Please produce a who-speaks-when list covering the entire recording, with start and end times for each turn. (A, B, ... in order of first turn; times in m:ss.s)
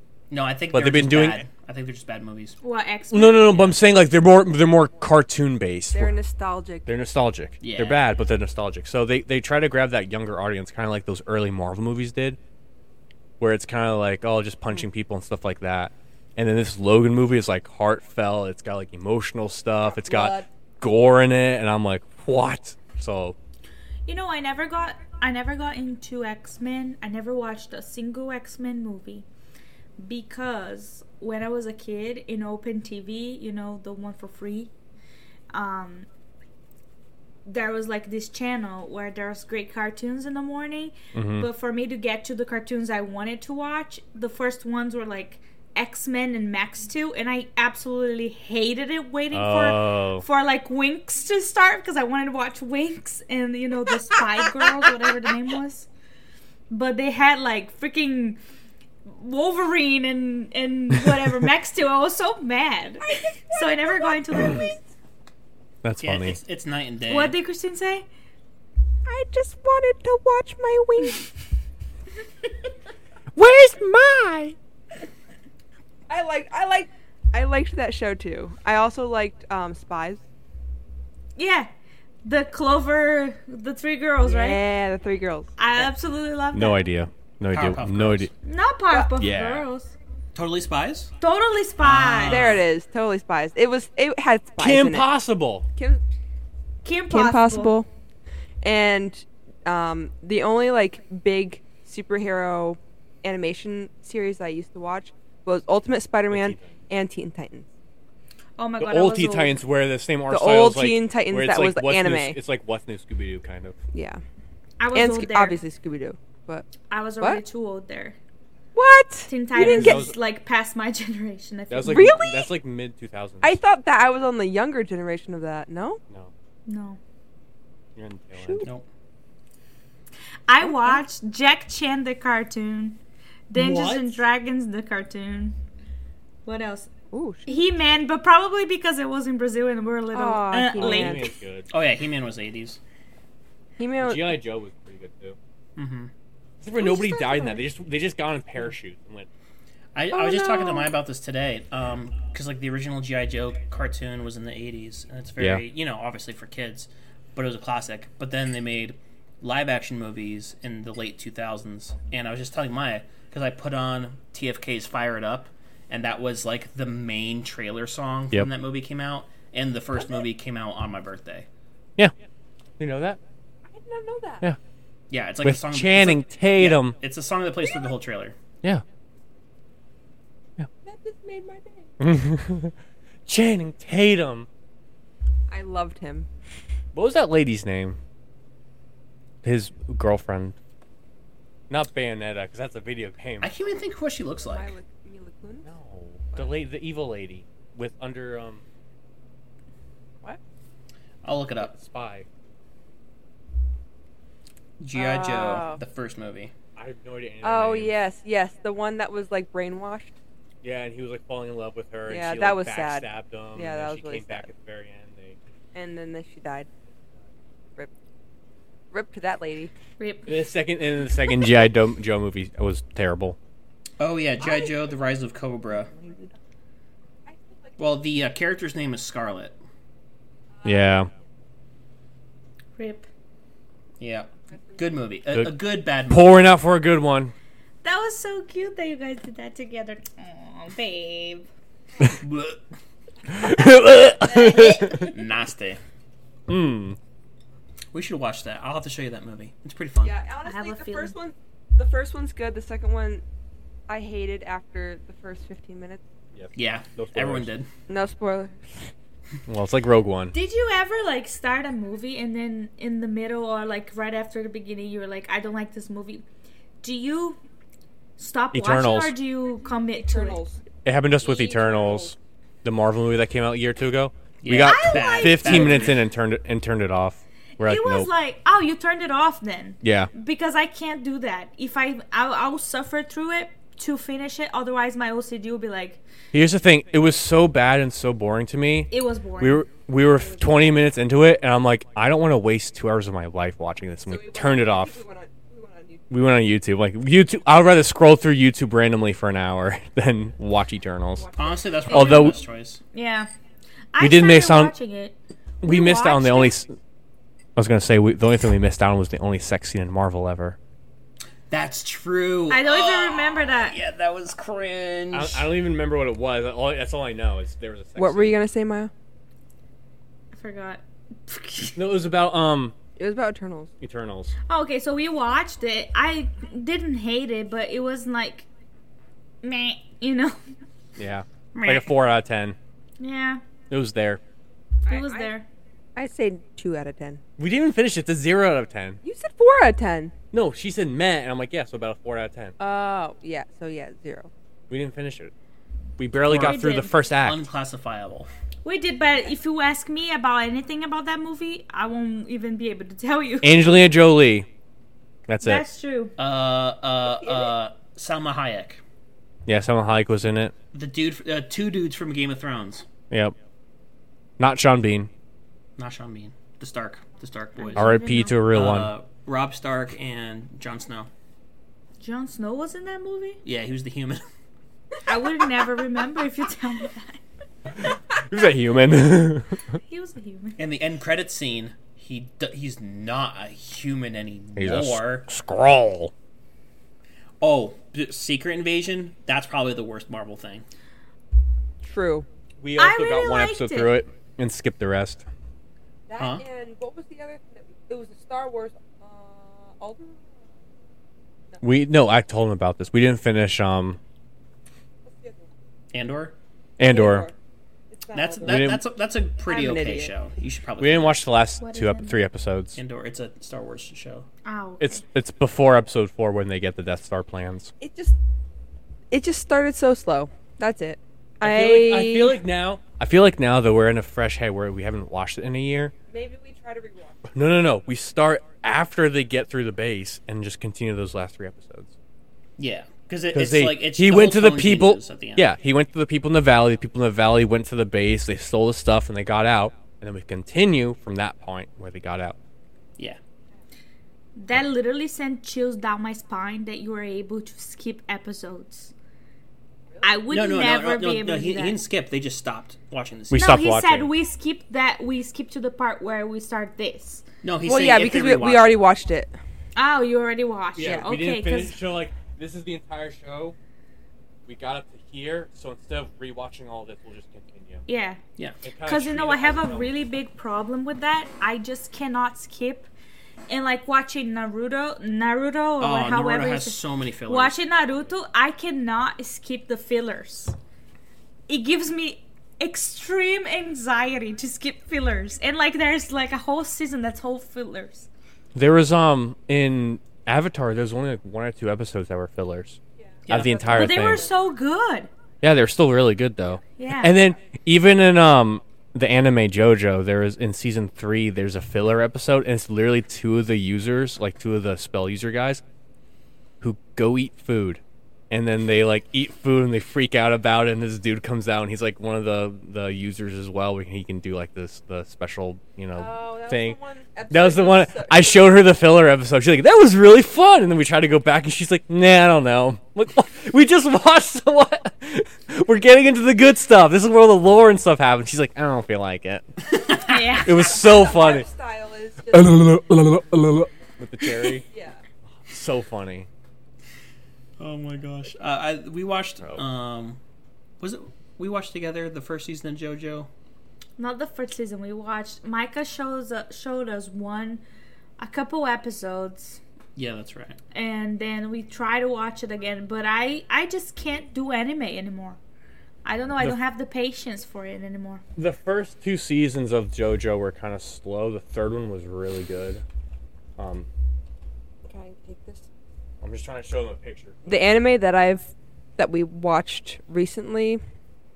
0:00.3-0:02.6 A
0:00.7-0:01.4 B
0:02.6-0:03.7 C
0:03.1-0:06.1 B
0:05.9-0:06.9 D
0:06.8-0:12.4 B
0:07.6-0:08.0 A
0:13.4-0:23.4 B
0:19.8-0:20.4 D
0:24.1-0:29.2 C
0:30.0-0:34.7 C
0:35.5-0:36.1 C
0:37.4-0:55.9 C
0:41.1-0:41.5 B
0:49.3-0:50.2 B
0:56.7-0:58.4 C
0:59.0-1:04.8 C
1:03.1-1:04.8 D
1:05.8-1:06.4 B
1:06.0-1:07.3 A
1:07.1-1:08.0 C
1:09.0-1:11.3 D
1:13.3-1:14.5 B
1:16.1-1:20.2 D
1:21.4-1:21.7 C
1:22.2-1:24.6 C
1:24.2-1:25.9 D
1:25.6-1:26.8 C
1:26.5-1:28.3 B
1:27.5-1:28.3 A
1:28.4-1:29.9 C
1:29.2-1:29.6 B
1:30.3-1:31.1 A
1:31.2-1:32.4 C
1:31.8-1:32.6 A
1:32.3-1:35.1 D
1:34.6-1:35.7 B
1:35.7-1:36.0 D
1:36.8-1:37.8 C
1:37.1-1:37.9 D
1:38.6-1:47.7 D
1:46.3-1:46.8 B
1:48.6-1:49.6 C
1:48.8-1:53.7 B
1:50.3-1:52.4 D
1:53.9-1:54.2 D
1:54.8-1:55.6 C
1:54.9-1:56.6 D
1:56.9-1:58.2 C
1:58.7-2:00.1 D
1:59.3-2:02.4 C
1:59.5-2:00.1 B
2:01.7-2:03.6 B
2:01.8-2:02.5 D
2:03.4-2:06.0 D
2:06.6-2:07.0 C
2:08.0-2:08.7 B
2:08.4-2:08.7 D
2:10.5-2:13.0 C
2:10.6-2:11.0 D
2:13.5-2:15.6 C
2:13.6-2:14.0 A
2:16.4-2:16.9 C
2:17.1-2:17.7 D
2:17.5-2:21.3 C
2:20.1-2:21.3 D
2:20.5-2:21.7 B
2:21.7-2:22.8 A
2:23.8-2:24.4 D
2:24.0-2:25.4 B
2:25.8-2:26.1 A
2:26.6-2:29.3 B
2:26.8-2:27.6 D
2:29.9-2:51.5 A
2:30.1-2:30.9 D
2:35.4-2:35.6 B
2:52.8-2:53.2 B
2:53.7-2:54.4 D
2:55.1-2:58.4 A
2:55.4-2:57.0 B
3:00.8-3:02.0 D
3:02.0-3:02.7 B
3:03.3-3:04.5 B
3:05.5-3:06.3 D
3:06.9-3:08.0 B
3:09.4-3:10.6 B
3:11.7-3:13.5 B
3:13.4-3:14.7 A
3:14.4-3:15.7 D
3:15.6-3:18.6 B
3:21.2-3:21.7 A
3:21.6-3:22.2 B
3:24.8-3:26.5 A
3:24.9-3:25.8 D
3:26.8-3:28.0 B
3:27.4-3:30.1 D
3:30.6-3:35.4 B
3:32.0-3:34.5 D
3:35.7-3:36.7 D
3:38.9-3:39.7 D
3:40.0-3:40.4 C
3:40.3-3:43.4 B
3:44.0-3:45.9 A
3:44.4-3:44.7 D
3:45.7-3:46.3 D
3:47.2-3:47.8 D
3:47.8-3:49.6 A
3:50.6-3:51.0 D
3:50.6-3:51.1 B
3:52.8-3:53.1 C
3:54.0-3:56.5 A
3:56.1-3:57.3 B
3:57.8-4:01.5 C
4:02.1-4:02.6 A
4:03.3-4:05.1 B
4:04.3-4:05.0 D
4:04.3-4:04.7 C
4:04.9-4:05.8 A
4:06.5-4:07.0 B
4:07.9-4:10.2 A
4:10.0-4:13.2 D
4:10.4-4:11.1 C
4:13.9-4:16.0 D
4:16.3-4:17.5 B
4:16.5-4:17.7 A
4:17.9-4:18.9 D
4:19.5-4:20.3 B
4:20.3-4:26.2 C
4:26.8-4:27.4 C
4:28.2-4:30.4 C
4:28.5-4:29.2 B
4:29.9-4:30.6 D
4:30.8-4:38.1 B
4:31.2-4:32.1 D
4:34.4-4:36.0 A
4:34.6-4:35.9 C
4:37.6-4:46.0 C
4:39.8-4:40.1 B
4:46.3-4:55.0 B
4:48.9-4:49.6 C
4:50.2-4:50.7 D
4:54.1-4:56.1 D
4:56.1-5:01.3 B
5:01.2-5:01.8 D
5:01.4-5:02.8 A
5:01.9-5:02.4 B
5:01.9-5:02.3 C
5:02.9-5:03.3 C
5:03.9-5:06.6 C
5:04.0-5:04.8 B
5:05.6-5:06.8 B
5:07.6-5:10.6 B
5:11.5-5:15.5 A
5:12.5-5:13.8 C
5:15.1-5:18.4 B
5:18.0-5:18.9 D
5:20.3-5:21.8 C
5:21.8-5:22.7 B
5:23.0-5:23.7 D
5:23.8-5:24.3 B
5:24.5-5:28.5 C
5:29.4-5:30.4 C
5:31.0-5:32.6 B
5:31.5-5:31.9 A
5:33.0-5:33.4 C
5:33.7-5:34.2 B
5:34.8-5:35.5 C
5:34.9-5:35.3 D
5:36.0-5:37.2 D
5:37.4-5:39.0 B
5:39.0-5:40.1 D
5:40.3-5:42.5 B
5:42.6-5:44.3 D
5:44.7-5:45.3 B
5:46.0-5:47.4 B
5:46.2-5:48.3 A
5:46.3-5:46.9 C
5:48.6-5:53.7 C
5:53.4-5:54.5 B
5:55.3-5:55.7 B
5:55.4-5:56.1 C
5:56.2-5:58.8 A
5:57.2-5:57.5 D
5:59.5-6:00.5 B
6:00.7-6:02.8 A
6:04.4-6:05.1 B
6:05.8-6:11.1 A
6:07.6-6:08.4 C
6:07.8-6:08.9 B
6:12.0-6:13.4 C
6:13.4-6:14.2 A
6:15.0-6:17.2 C
6:17.8-6:19.8 B
6:19.8-6:20.6 C
6:20.6-6:25.3 A
6:24.6-6:26.1 B
6:27.4-6:30.6 A
6:31.8-6:32.2 D
6:32.6-6:35.3 B
6:32.8-6:34.0 C
6:36.1-6:40.4 D
6:36.2-6:36.4 A
6:41.6-6:44.0 B
6:45.0-6:45.5 D
6:45.9-6:46.3 A
6:46.8-6:47.3 B
6:46.8-6:47.3 D
6:47.9-6:48.8 D
6:48.1-6:51.2 A
6:48.4-6:48.8 B
6:49.4-6:50.1 D
6:50.8-6:52.8 B
6:51.6-6:52.2 C
6:52.8-6:54.3 A
6:54.4-6:55.0 C
6:54.8-6:57.7 B
6:57.8-6:58.2 D
6:59.1-7:02.4 D
7:01.4-7:05.9 B
7:06.1-7:07.3 D
7:07.3-7:11.9 B
7:12.6-7:15.5 A
7:13.3-7:22.4 B
7:24.4-7:28.9 C
7:30.0-7:31.8 C
7:30.3-7:33.5 A
7:33.3-7:34.1 B
7:33.3-7:37.2 C
7:37.4-7:38.8 A
7:37.6-7:39.4 D
7:39.8-7:41.8 C
7:40.8-7:43.5 B
7:44.4-7:47.8 B
7:47.9-7:48.2 C
7:48.6-7:49.9 B
7:48.8-7:52.9 C
7:53.5-8:00.6 C
7:55.8-7:57.5 A
8:01.5-8:08.1 C
8:08.5-8:14.3 B
8:13.2-8:13.8 A
8:13.4-8:14.1 D
8:13.7-8:15.1 C
8:15.4-8:25.6 B
8:16.8-8:17.2 C
8:26.6-8:36.8 B
8:36.0-8:38.6 D
8:37.3-8:49.4 B
8:49.7-8:50.4 A
8:50.0-8:50.8 C
8:50.4-8:51.5 B
8:50.7-8:53.2 D
8:52.3-8:54.6 B
8:54.7-8:55.0 D
8:55.4-8:56.3 B
8:57.6-9:00.2 A
9:00.8-9:03.3 A
9:04.0-9:07.6 C
9:08.2-9:09.6 C
9:10.0-9:10.6 A
9:10.7-9:15.4 C
9:16.0-9:18.2 C
9:18.4-9:22.8 B
9:23.6-9:23.9 B
9:24.8-9:25.6 D
9:26.2-9:27.4 B
9:27.4-9:30.8 D